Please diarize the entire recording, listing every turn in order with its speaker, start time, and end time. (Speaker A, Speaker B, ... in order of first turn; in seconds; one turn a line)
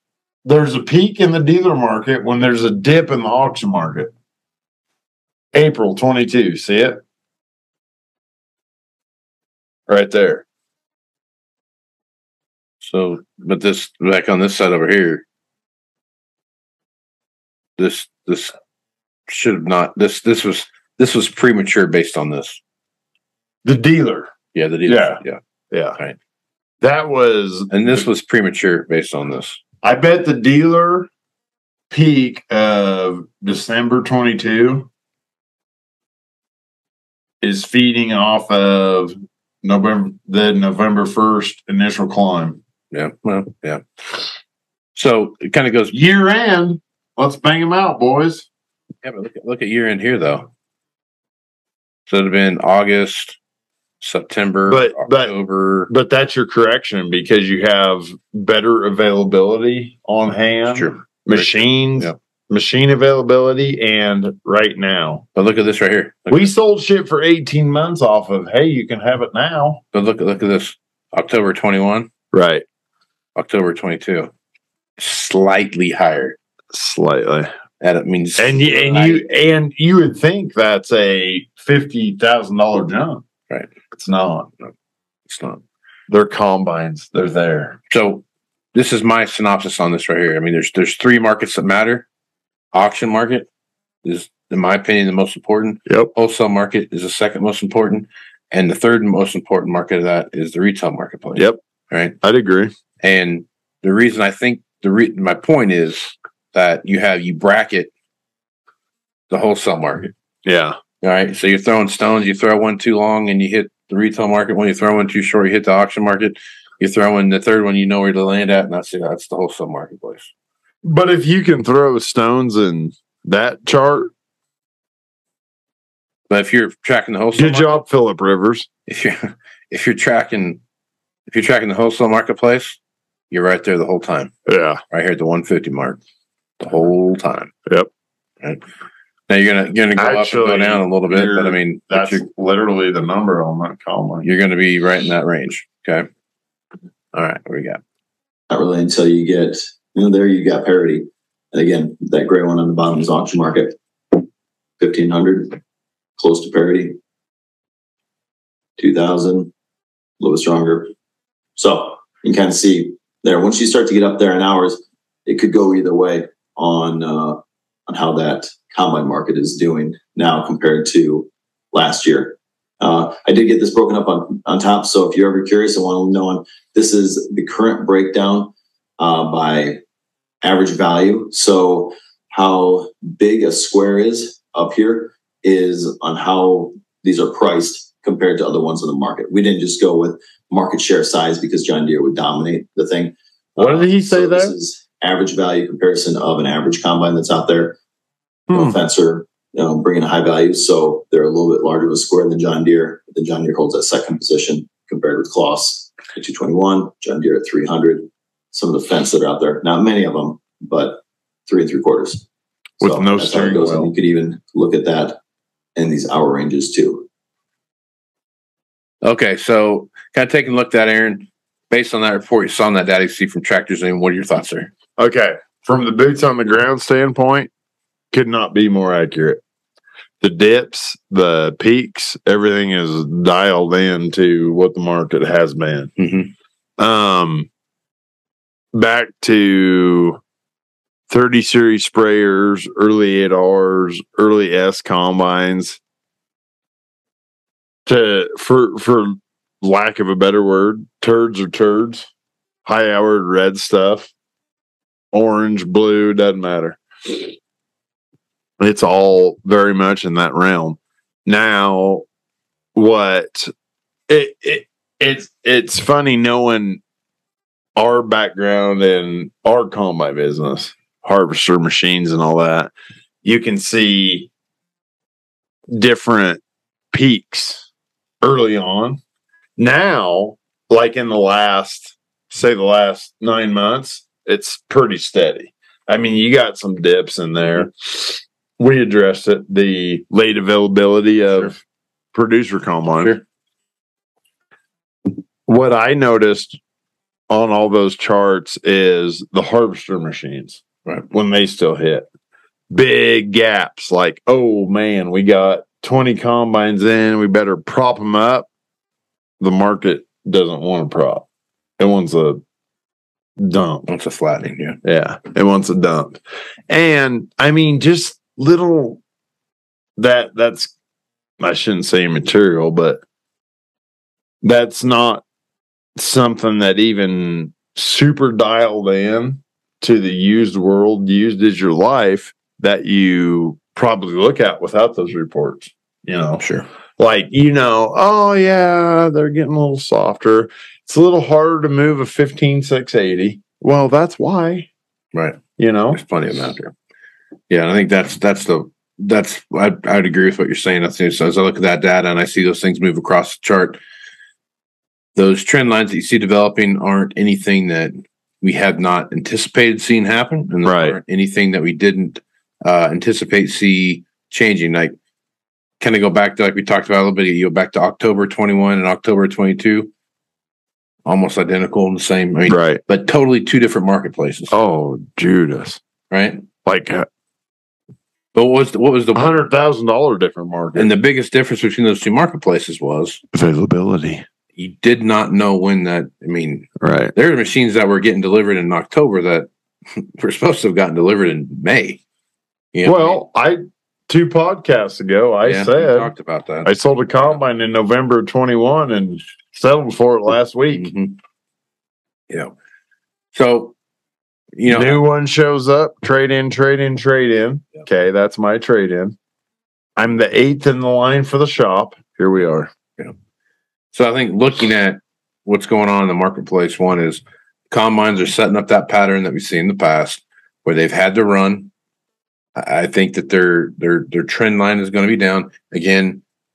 Speaker A: 0.4-4.1
Speaker A: 5.5-7.0
Speaker A: 9.9-10.4
Speaker B: 12.8-15.2
Speaker B: 17.8-18.5
Speaker B: 19.3-22.6
Speaker A: 23.6-24.3
Speaker B: 24.5-25.4
Speaker A: 24.9-26.0
Speaker A: 26.8-28.0
Speaker B: 27.7-29.6
Speaker A: 29.8-31.1
Speaker A: 31.9-34.9
Speaker A: 37.4-42.6
Speaker B: 42.9-44.2
Speaker B: 44.9-45.9
Speaker A: 45.9-48.5
Speaker B: 49.0-50.5
Speaker B: 52.1-53.4
Speaker B: 54.0-55.9
Speaker A: 54.6-55.3
Speaker A: 55.9-65.2
Speaker B: 60.7-62.1
Speaker B: 65.3-66.5
Speaker A: 66.3-69.8
Speaker B: 69.9-72.1
Speaker A: 72.3-72.6
Speaker B: 73.3-74.3
Speaker B: 75.0-76.3
Speaker A: 76.7-77.5
Speaker B: 77.8-79.2
Speaker A: 78.4-83.2
Speaker A: 83.9-84.5
Speaker B: 85.3-85.6
Speaker A: 86.1-87.8
Speaker B: 87.9-92.0
Speaker B: 92.7-93.5
Speaker B: 94.0-102.2
Speaker A: 102.2-102.7
Speaker B: 103.0-107.9
Speaker B: 109.3-110.1
Speaker A: 110.4-110.8
Speaker B: 111.0-120.3
Speaker A: 120.8-124.1
Speaker B: 126.3-127.8
Speaker A: 127.3-128.7
Speaker B: 128.9-130.6
Speaker B: 131.3-132.8
Speaker B: 133.3-134.3
Speaker A: 134.4-134.8
Speaker B: 134.9-136.0
Speaker B: 136.6-137.5
Speaker B: 139.3-142.2
Speaker A: 140.0-144.3
Speaker B: 144.2-146.1
Speaker B: 147.1-147.8
Speaker C: 148.5-154.2
Speaker C: 154.8-155.6
Speaker C: 156.2-157.0
Speaker C: 158.8-159.5
Speaker C: 160.2-160.9
Speaker C: 161.6-179.8
Speaker C: 180.4-197.8
Speaker A: 193.6-194.5
Speaker A: 198.5-198.8
Speaker C: 198.5-212.2
Speaker A: 212.8-213.9
Speaker C: 212.8-215.2
Speaker C: 215.8-217.1
Speaker B: 219.0-224.7
Speaker A: 225.0-227.5
Speaker A: 228.1-229.4
Speaker A: 230.2-235.9
Speaker B: 236.0-236.3
Speaker A: 236.8-237.5
Speaker A: 238.7-240.2
Speaker A: 241.1-245.8
Speaker A: 247.8-252.1
Speaker A: 252.6-254.1
Speaker A: 255.1-257.4
Speaker A: 258.6-262.0
Speaker A: 262.7-263.5
Speaker A: 264.1-266.8
Speaker A: 267.8-272.7
Speaker A: 273.2-274.3
Speaker A: 275.7-277.7
Speaker A: 278.2-279.0
Speaker A: 279.6-291.6
Speaker A: 292.1-293.1
Speaker A: 295.4-296.6
Speaker A: 297.3-302.1
Speaker A: 302.7-308.5
Speaker A: 309.4-311.2
Speaker A: 311.8-312.4
Speaker A: 313.4-313.9
Speaker B: 313.9-314.8
Speaker A: 314.8-319.0
Speaker A: 320.0-320.7
Speaker A: 321.4-323.0
Speaker A: 324.4-325.2
Speaker A: 325.9-336.4
Speaker B: 336.4-336.6
Speaker A: 337.0-344.7
Speaker B: 345.1-345.4
Speaker A: 345.6-346.0
Speaker B: 345.9-346.7
Speaker B: 347.5-353.8
Speaker B: 355.1-364.9
Speaker A: 360.6-361.0
Speaker B: 365.8-369.9
Speaker B: 371.1-374.5
Speaker A: 372.5-372.8
Speaker A: 374.5-375.8
Speaker B: 376.1-376.4
Speaker A: 376.6-377.1
Speaker B: 378.3-379.4
Speaker A: 379.1-380.9
Speaker B: 380.7-383.2
Speaker A: 383.3-384.2
Speaker B: 384.6-392.0
Speaker A: 386.8-387.1
Speaker B: 392.7-393.2
Speaker A: 392.8-396.1
Speaker B: 395.4-397.4
Speaker A: 396.6-400.9
Speaker B: 400.7-401.2
Speaker B: 403.3-403.7
Speaker B: 404.5-405.0
Speaker A: 404.6-409.1
Speaker A: 410.0-412.7
Speaker B: 413.9-421.7
Speaker B: 422.6-426.2